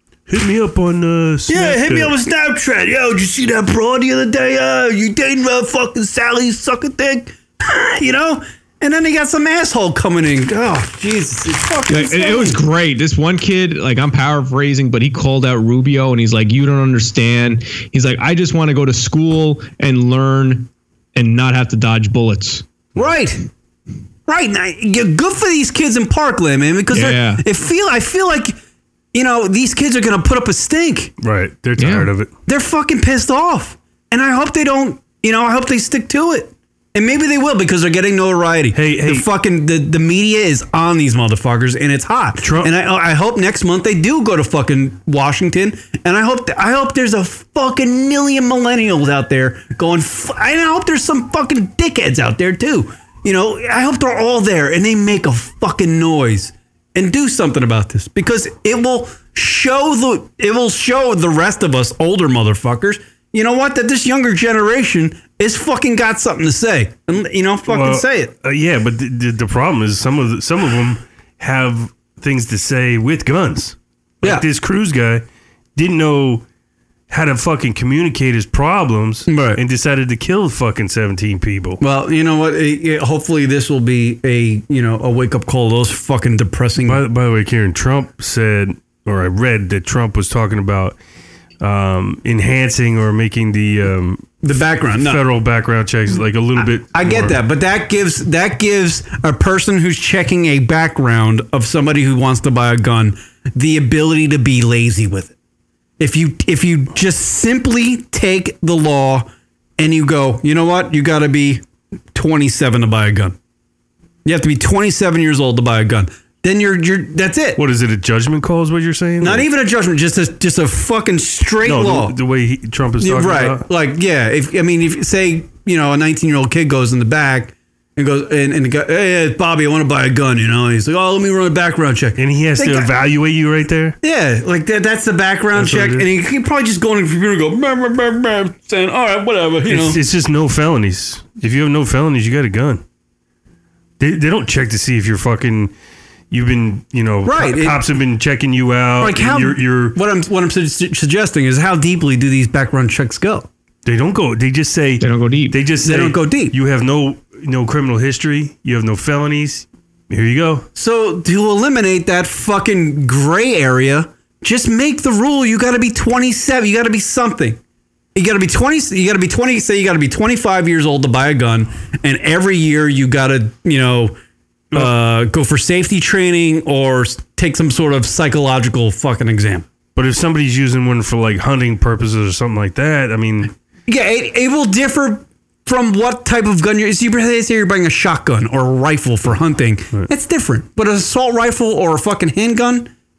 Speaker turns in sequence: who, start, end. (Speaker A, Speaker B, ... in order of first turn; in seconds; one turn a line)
Speaker A: 0.3-2.1
Speaker B: 1.5-12.6
Speaker C: 11.9-22.6
Speaker B: 23.0-23.4
Speaker B: 24.3-28.6
Speaker C: 26.9-27.4
Speaker B: 29.1-31.1
Speaker A: 31.2-32.3
Speaker C: 31.8-32.1
Speaker B: 32.5-68.3
Speaker A: 38.7-39.3
Speaker A: 42.4-42.7
Speaker A: 67.7-75.2
Speaker A: 75.8-76.5
Speaker A: 77.1-81.8
Speaker B: 79.3-79.6
Speaker B: 81.8-87.0
Speaker A: 86.8-91.0
Speaker A: 91.6-94.2
Speaker B: 94.4-95.2
Speaker A: 95.0-97.4
Speaker B: 96.6-105.3
Speaker B: 106.0-111.6
Speaker B: 112.2-113.4
Speaker B: 114.2-117.6
Speaker A: 117.6-119.5
Speaker B: 119.2-122.2
Speaker A: 121.7-123.7
Speaker B: 123.0-132.9
Speaker A: 132.2-134.0
Speaker B: 134.0-140.0
Speaker A: 135.5-136.1
Speaker A: 139.7-142.8
Speaker A: 144.0-145.7
Speaker A: 146.3-150.0
Speaker B: 147.2-147.8
Speaker B: 149.0-153.5
Speaker A: 153.8-160.7
Speaker C: 155.0-155.6
Speaker B: 155.8-156.6
Speaker B: 160.8-167.6
Speaker B: 168.2-174.2
Speaker B: 174.7-179.7
Speaker A: 179.9-183.5
Speaker B: 183.9-192.9